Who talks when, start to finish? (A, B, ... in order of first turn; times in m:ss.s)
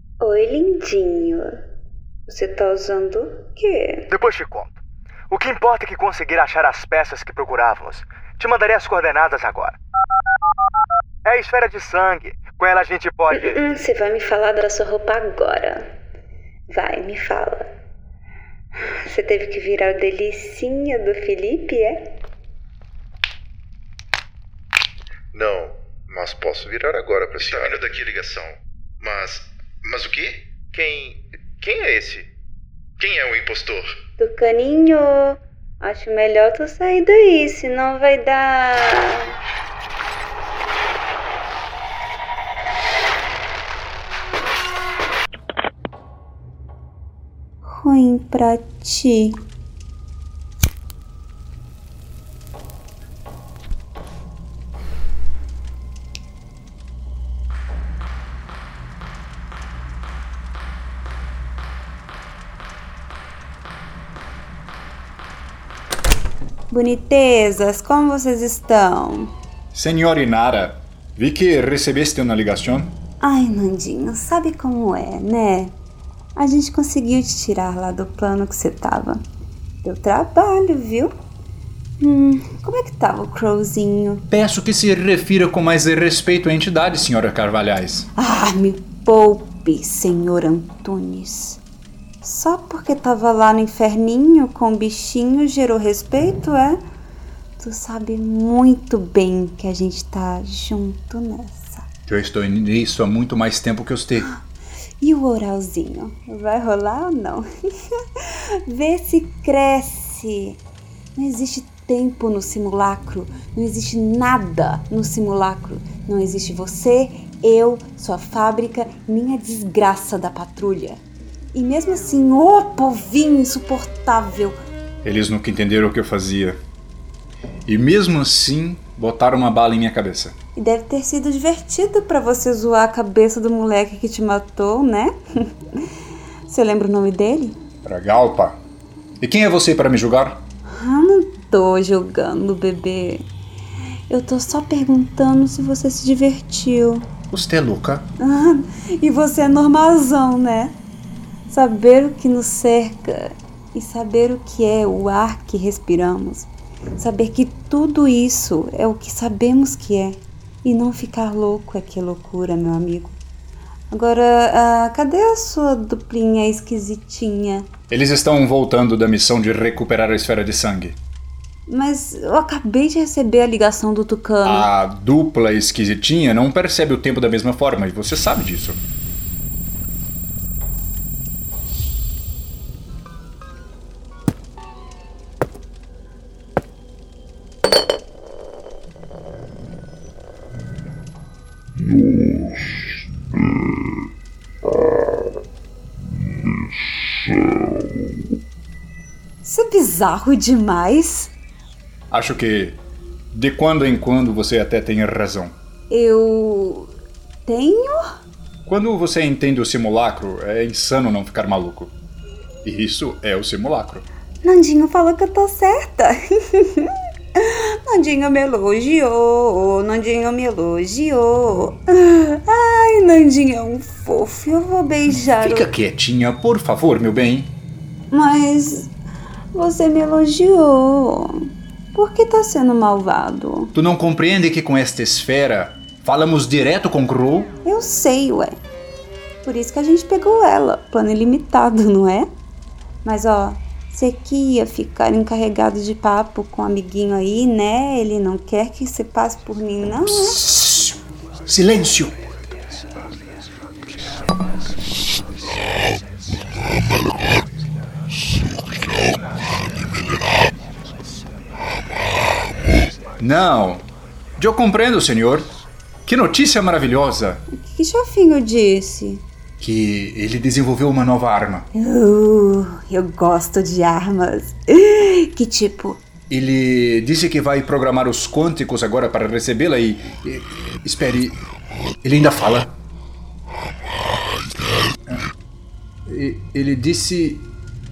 0:00.2-0:01.6 A
0:02.3-0:04.0 A
0:04.1-0:09.8 B
0:11.2-0:13.6 B
0:13.3-0:15.8 A
0:16.7-0:17.7 A
0:18.8-0:22.1 A
0:25.3-0:32.3 C
0:33.0-0:33.9 C
0:34.2-0:39.3 A
0:47.6-0:49.4 A
1:06.7-1:09.3 A
1:09.7-1:12.9 D
1:13.2-1:15.7 A
1:16.4-1:19.2 A
1:19.8-1:21.1 A
1:22.0-1:24.2 A
1:24.3-1:28.1 D
1:28.2-1:31.6 A
1:32.2-1:36.8 A
1:37.6-1:41.8 A
1:42.1-1:44.3 D
1:45.0-1:47.4 A
1:48.2-1:50.6 A
1:51.1-2:01.0 A
2:01.5-2:04.6 A
2:05.0-2:06.6 D
2:07.7-2:10.3 D
2:10.6-2:15.1 A
2:16.5-2:17.6 A
2:17.8-2:18.6 D
2:19.2-2:20.4 D
2:20.7-2:23.2 A
2:24.1-2:27.1 A
2:27.3-2:28.0 D
2:28.2-2:30.7 A
2:31.5-2:43.2 A
2:43.9-2:47.7 A
2:47.9-2:51.0 D
2:51.7-2:54.7 A
2:54.4-2:58.8 D
3:19.4-3:21.3 A
3:22.1-3:22.8 D
3:23.3-3:25.5 D
3:25.9-3:26.9 A
3:27.4-3:28.0 A
3:28.6-3:31.9 D
3:32.6-3:34.0 D
3:34.4-3:45.7 A
3:45.1-3:47.5 D
3:48.1-3:48.9 A
3:49.5-3:53.7 A
3:53.7-3:57.5 D
3:57.6-3:58.5 A
3:59.4-4:02.3 A
4:03.0-4:10.4 A
4:10.1-4:11.0 D
4:11.5-4:12.1 D
4:23.2-4:23.8 D
4:24.4-4:25.5 D
4:26.0-4:27.4 D
4:27.5-4:29.2 A
4:29.6-4:31.7 D
4:31.7-4:36.0 A
4:36.3-4:41.4 D
4:42.0-4:42.7 D
4:46.0-4:47.5 D